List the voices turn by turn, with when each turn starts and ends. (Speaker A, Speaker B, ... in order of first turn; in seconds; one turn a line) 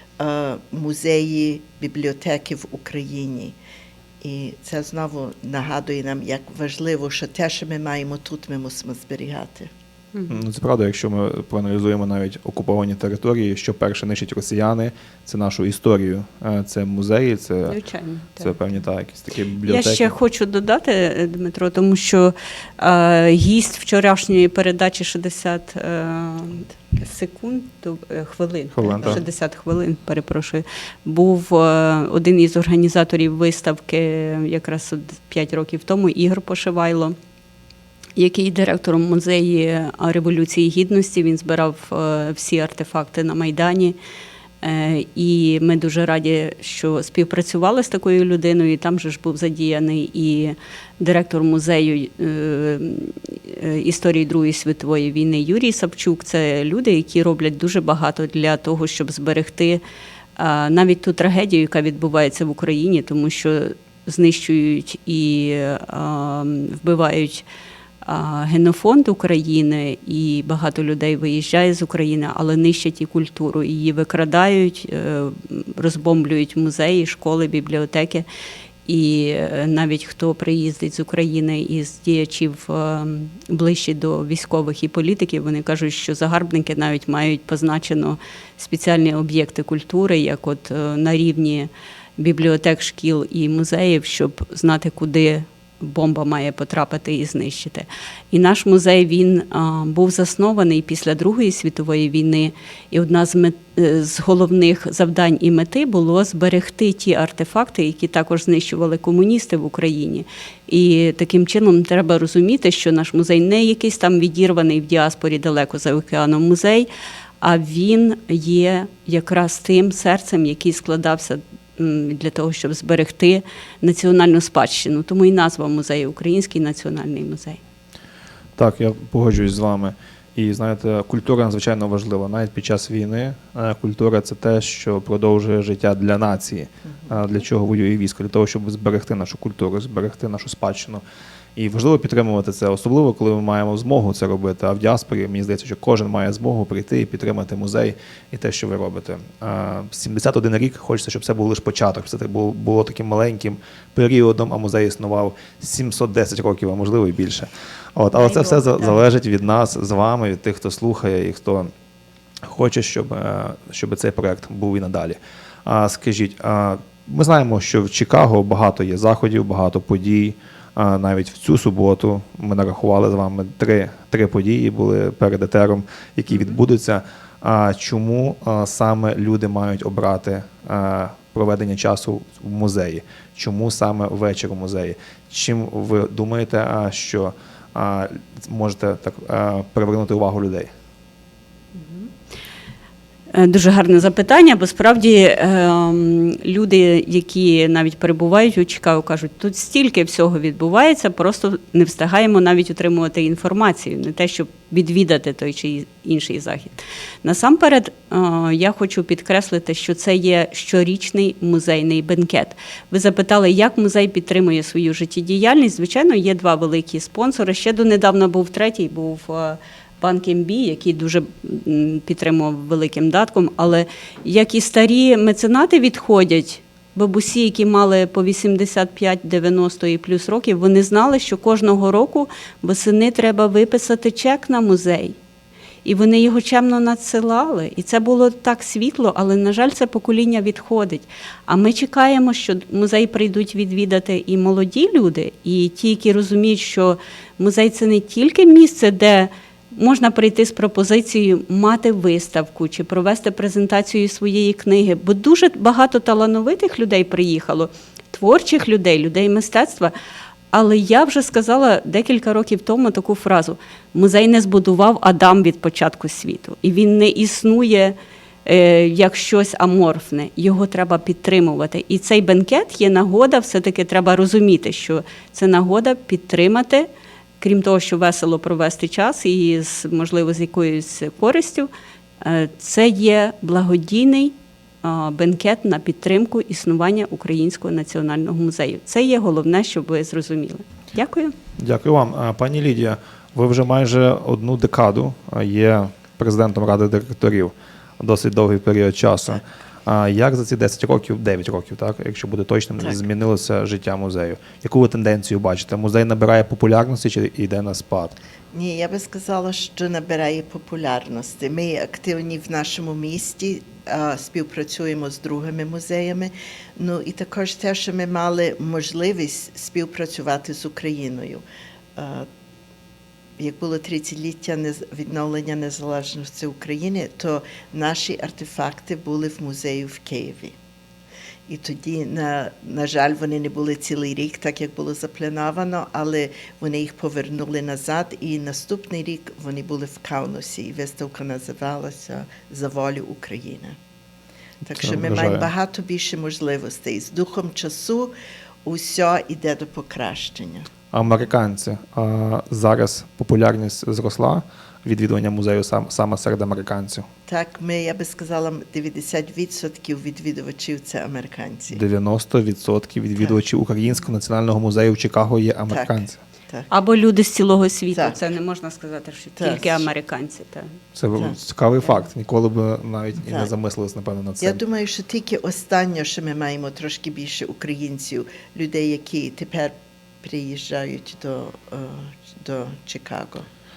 Speaker A: 0.2-3.5
Speaker A: 4.2-9.7
Speaker B: 10.1-10.4
Speaker C: 10.3-17.8
Speaker B: 17.7-18.6
Speaker C: 18.4-20.1
Speaker B: 19.6-37.1
Speaker C: 28.7-29.2
Speaker B: 38.1-44.0
Speaker B: 44.6-59.8
Speaker B: 60.4-67.5
Speaker B: 68.0-78.2
Speaker B: 78.8-116.9
Speaker B: 117.4-127.6
Speaker C: 128.6-141.0
Speaker C: 141.6-161.7
Speaker B: 158.1-159.1
Speaker C: 162.4-190.7
Speaker B: 176.3-176.6
Speaker B: 191.7-192.1
Speaker B: 193.3-235.2
Speaker B: 235.8-259.9
Speaker B: 260.5-291.3
Speaker C: 291.6-308.1
Speaker A: 308.5-321.4
Speaker A: 321.9-322.3
Speaker A: 323.4-330.6
Speaker A: 331.5-343.7
Speaker A: 344.6-348.1
Speaker C: 344.7-345.5
Speaker A: 348.6-350.7
Speaker C: 350.9-357.0
Speaker A: 357.3-361.8
Speaker C: 361.7-366.2
Speaker A: 365.7-366.7
Speaker B: 366.7-370.7
Speaker A: 367.9-368.2
Speaker A: 369.4-369.9
Speaker C: 370.9-374.6
Speaker A: 373.2-373.5
Speaker A: 374.4-383.4